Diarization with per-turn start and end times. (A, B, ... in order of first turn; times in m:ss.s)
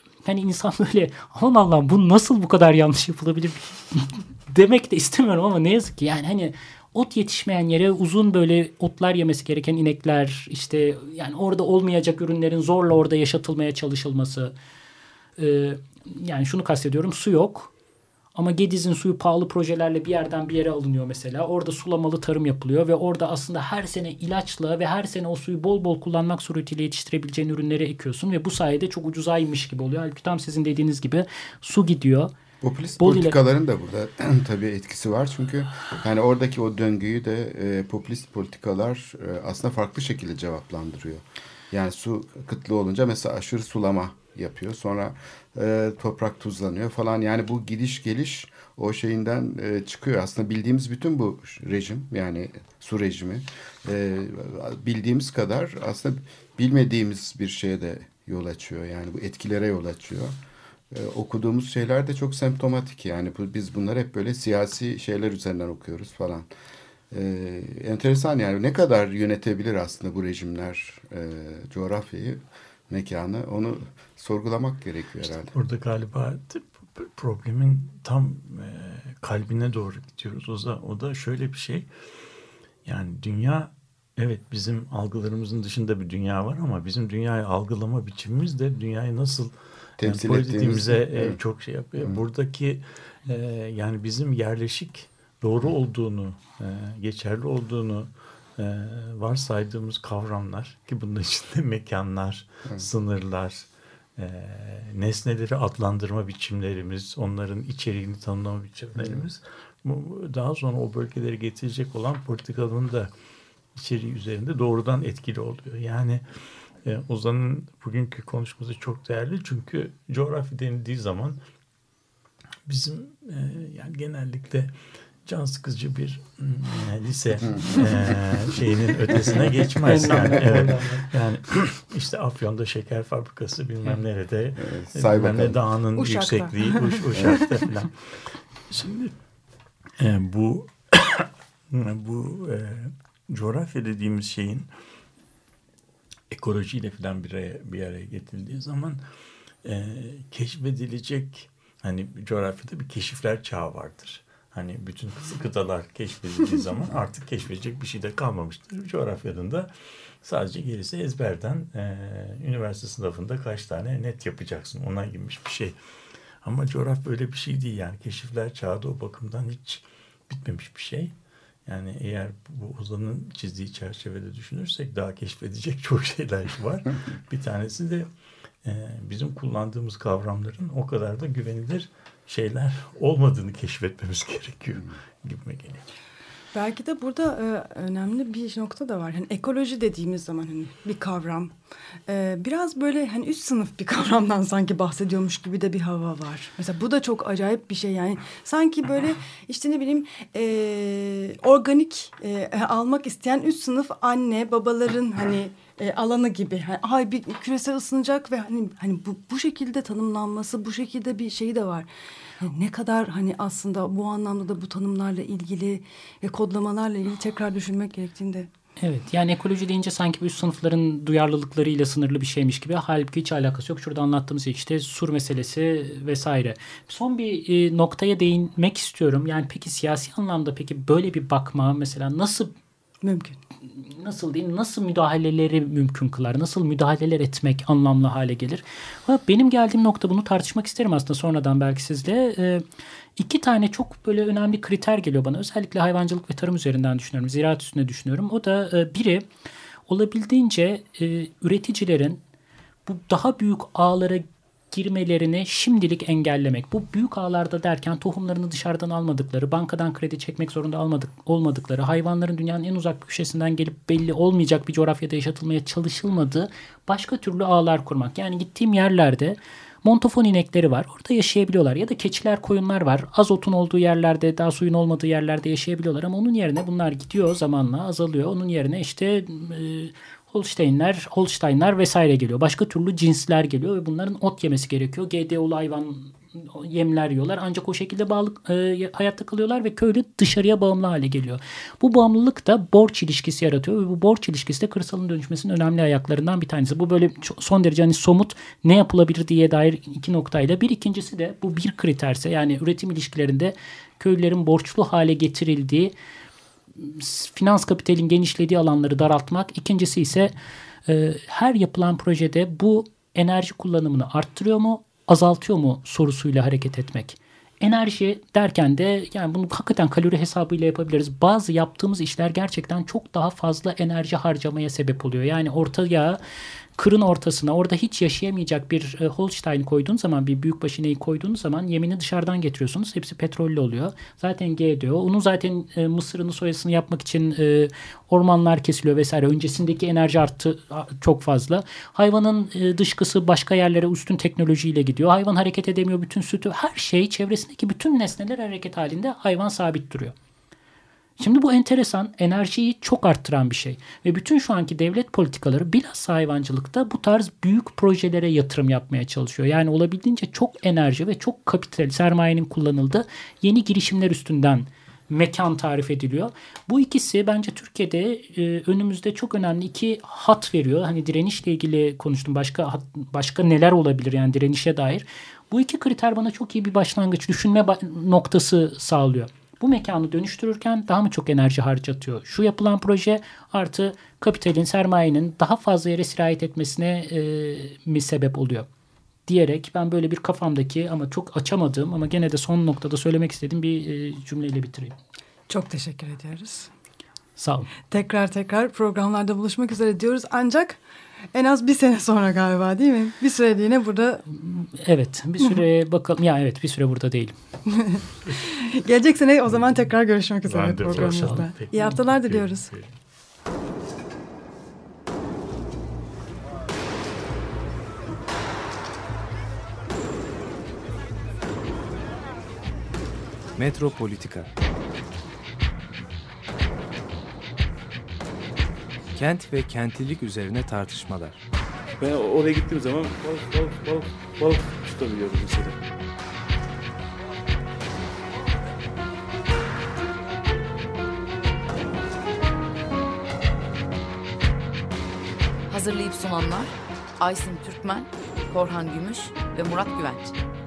0:00.2-0:14.5 A
0:15.4-0:17.7 A
0:18.4-0:32.3 A
0:32.6-1:00.4 B
0:33.0-0:33.4 A
1:00.9-1:06.5 B
1:07.1-1:15.5 B
1:15.2-1:21.9 C
1:22.8-1:53.1 C
1:30.0-1:31.4 B
1:53.7-1:56.2 C
1:56.8-2:01.4 C
2:02.7-2:17.9 C
2:14.6-2:15.6 B
2:16.0-2:17.3 D
2:18.7-2:19.1 C
2:20.0-2:24.7 C
2:26.3-2:29.0 C
2:29.6-2:39.7 C
2:40.2-2:45.8 C
2:46.4-2:51.1 C
2:51.7-2:58.1 C
2:58.6-3:05.8 C
3:06.5-3:11.6 D
3:12.1-3:31.9 D
3:32.4-3:38.5 D
3:38.8-3:52.5 A
3:53.0-3:53.4 D
3:53.8-4:02.6 A
4:03.2-4:09.3 A
4:09.9-4:12.2 A
4:12.9-5:05.9 A
5:06.8-5:10.3 A
5:10.9-5:26.2 A
5:26.8-5:50.2 A
5:51.2-6:28.7 A
6:29.3-6:35.0 A
6:35.5-6:36.7 D
6:37.4-6:37.7 A
6:37.8-6:40.8 D
6:41.3-6:44.2 D
6:44.3-6:47.4 A
6:47.7-6:52.7 D
6:49.5-6:49.9 C
6:50.4-6:52.9 C
6:51.0-6:51.2 A
7:03.6-7:04.5 E
7:09.1-7:11.4 E
7:12.0-7:15.8 F
7:25.7-7:30.4 G